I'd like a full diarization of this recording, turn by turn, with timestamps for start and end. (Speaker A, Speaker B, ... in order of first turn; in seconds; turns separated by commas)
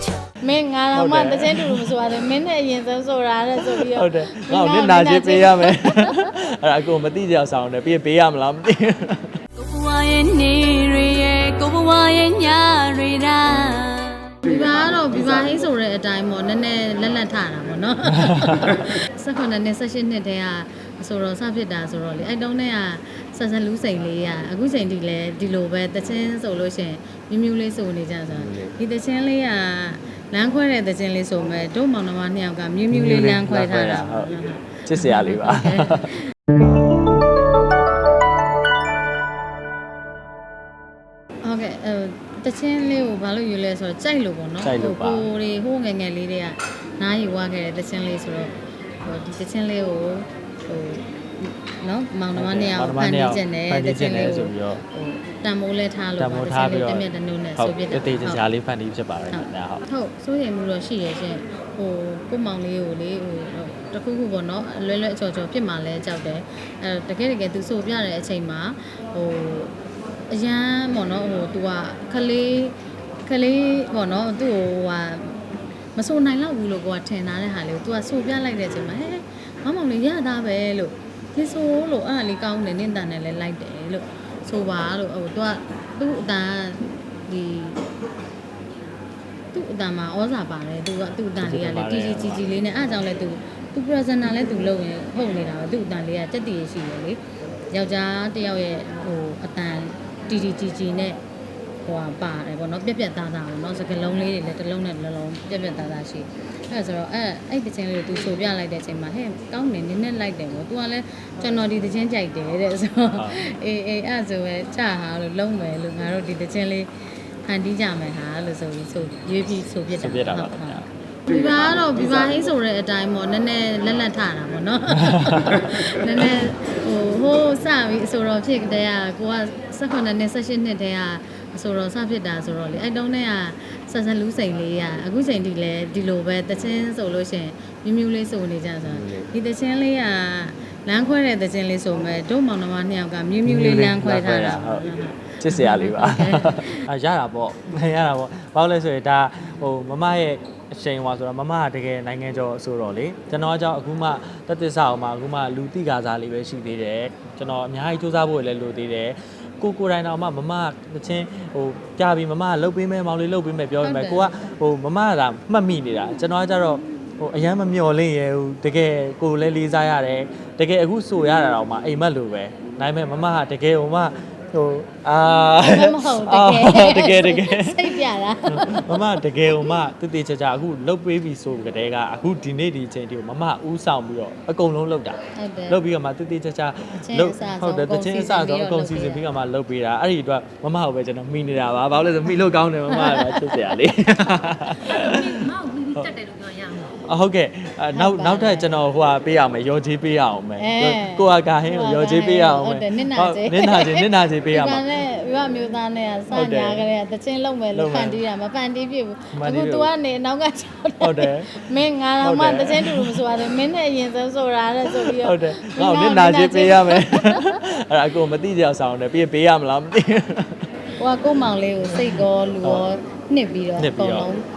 Speaker A: 0.4-6.3, Speaker B: 0.9-1.9, Speaker B: 3.7-9.4, Speaker C: 9.6-14.3, Speaker A: 14.4-36.2, Speaker B: 18.1-18.8, Speaker B: 28.3-28.7, Speaker B: 32.9-34.3, Speaker B: 34.9-36.1, Speaker A: 41.4-48.5, Speaker B: 44.6-45.3, Speaker A: 49.0-58.4, Speaker B: 52.3-54.8, Speaker B: 56.2-59.8, Speaker A: 59.3-69.8, Speaker A: 70.3-87.8, Speaker A: 89.5-97.2, Speaker B: 91.4-92.5, Speaker A: 97.7-101.2, Speaker A: 101.8-116.9, Speaker B: 113.1-113.4, Speaker A: 117.5-146.9, Speaker B: 119.9-120.8, Speaker B: 125.0-125.6, Speaker B: 138.8-139.3, Speaker B: 143.4-144.8, Speaker B: 145.4-185.2, Speaker A: 163.8-164.3, Speaker A: 175.6-179.8, Speaker A: 185.3-185.8, Speaker B: 185.7-196.1, Speaker A: 187.0-189.2, Speaker A: 192.9-193.8, Speaker A: 194.8-196.9, Speaker B: 196.9-204.9, Speaker A: 197.9-198.8, Speaker A: 200.6-217.6, Speaker B: 206.3-206.8, Speaker B: 207.7-208.2, Speaker B: 209.3-209.9, Speaker B: 211.0-211.7, Speaker B: 212.2-213.2, Speaker B: 214.8-220.7, Speaker A: 221.0-224.4, Speaker B: 223.8-224.3